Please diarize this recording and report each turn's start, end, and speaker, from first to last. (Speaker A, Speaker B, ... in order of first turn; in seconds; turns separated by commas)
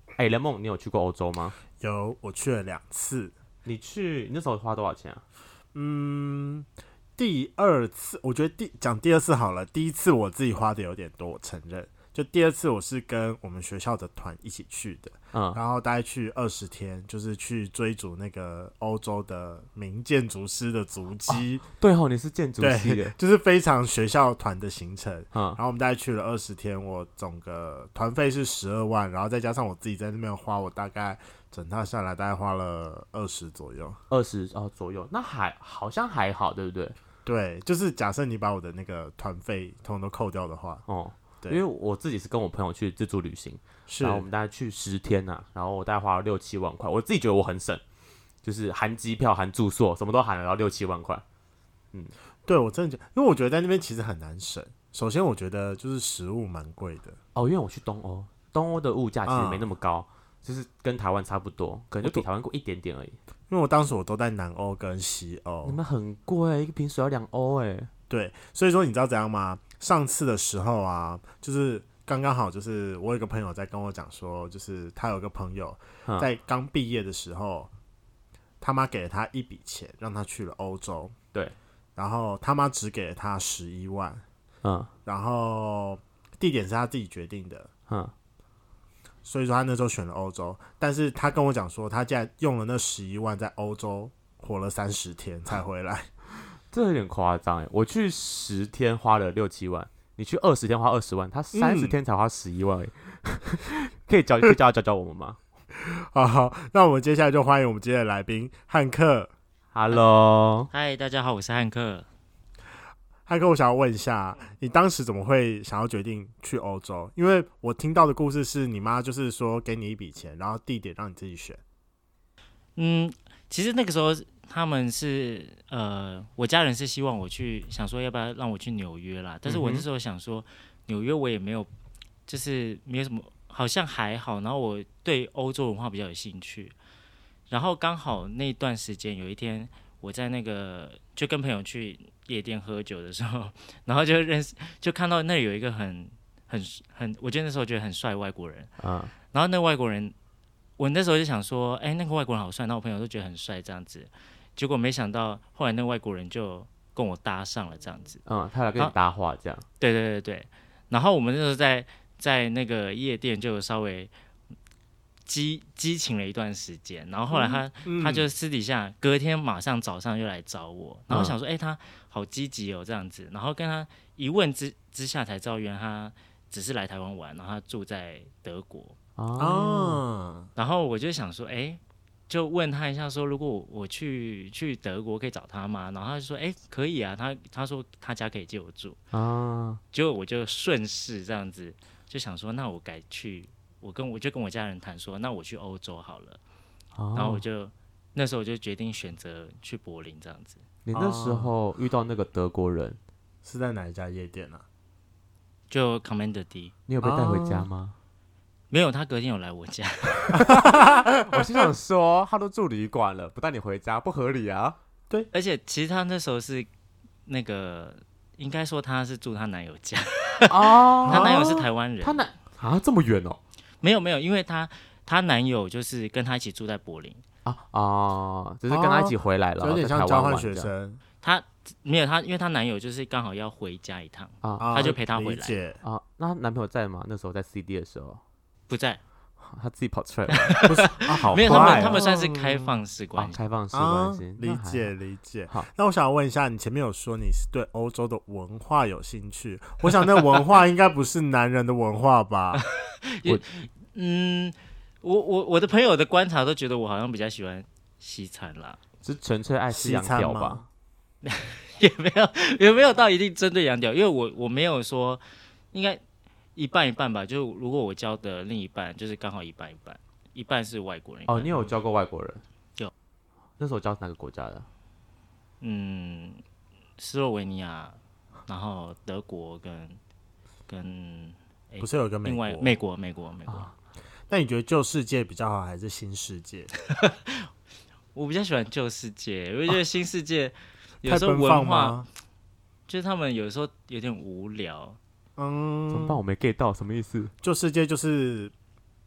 Speaker A: 0.2-1.6, Speaker B: 1.8-3.3, Speaker A: 3.6-5.2, Speaker B: 5.7-21.6, Speaker A: 15.3-15.6, Speaker A: 21.3-23.1, Speaker B: 22.6-34.0, Speaker A: 25.3-25.6, Speaker A: 34.1-37.0, Speaker B: 37.2-40.8, Speaker A: 40.9-47.8, Speaker B: 43.9-44.3, Speaker A: 48.4-51.2, Speaker B: 52.5-57.2, Speaker A: 57.4-63.2, Speaker B: 59.2-59.6, Speaker B: 62.0-62.3, Speaker B: 63.5-65.8, Speaker A: 65.6-67.9, Speaker B: 68.1-77.7, Speaker B: 78.6-81.2, Speaker B: 82.0-84.2, Speaker A: 84.6-84.9, Speaker B: 85.1-87.7, Speaker B: 89.2-96.1, Speaker A: 96.7-105.4, Speaker B: 101.5-102.0, Speaker B: 105.8-109.3, Speaker A: 109.7-110.7, Speaker C: 110.7-112.1, Speaker B: 113.3-121.6, Speaker C: 122.8-131.7, Speaker A: 129.5-129.9, Speaker C: 132.3-136.8, Speaker C: 137.5-148.7, Speaker A: 148.8-149.1, Speaker C: 149.3-150.1, Speaker C: 150.8-158.2, Speaker A: 158.3-159.7, Speaker C: 159.8-164.1, Speaker C: 165.3-179.0, Speaker B: 167.4-168.3, Speaker A: 171.1-171.3, Speaker A: 179.2-180.0, Speaker B: 179.4-180.5, Speaker C: 180.6-189.0, Speaker A: 189.1-189.8, Speaker C: 189.9-196.4, Speaker A: 196.9-197.4, Speaker C: 197.2-200.6, Speaker A: 200.8-203.0, Speaker B: 200.9-201.5, Speaker B: 203.4-204.7, Speaker C: 205.7-206.7, Speaker A: 206.9-207.9, Speaker B: 207.0-207.7, Speaker C: 208.7-210.6, Speaker B: 210.3-211.7, Speaker A: 210.4-214.8, Speaker C: 215.3-216.7, Speaker C: 217.3-222.2, Speaker A: 220.5-223.4, Speaker B: 221.1-221.7, Speaker C: 223.8-227.2, Speaker A: 227.4-230.7, Speaker B: 228.7-231.0, Speaker C: 231.2-235.6, Speaker A: 234.4-234.8, Speaker B: 234.6-235.8, Speaker A: 235.8-238.2, Speaker C: 238.7-239.0, Speaker A: 239.4-242.2, Speaker C: 240.3-243.4, Speaker B: 240.6-242.7, Speaker A: 243.2-244.9, Speaker B: 243.7-252.6, Speaker C: 252.6-258.8, Speaker A: 259.0-260.6, Speaker B: 259.7-260.6, Speaker C: 261.2-266.0, Speaker C: 266.6-271.7, Speaker A: 271.3-272.4, Speaker A: 273.6-274.7, Speaker C: 275.6-276.4, Speaker C: 277.0-280.0, Speaker C: 280.7-283.7, Speaker B: 281.8-282.7, Speaker A: 283.5-283.7, Speaker B: 284.3-286.7, Speaker C: 286.9-287.5, Speaker C: 288.1-292.0, Speaker B: 291.1-292.1, Speaker C: 292.9-295.0, Speaker B: 295.4-296.2, Speaker A: 295.9-297.3, Speaker B: 297.4-298.5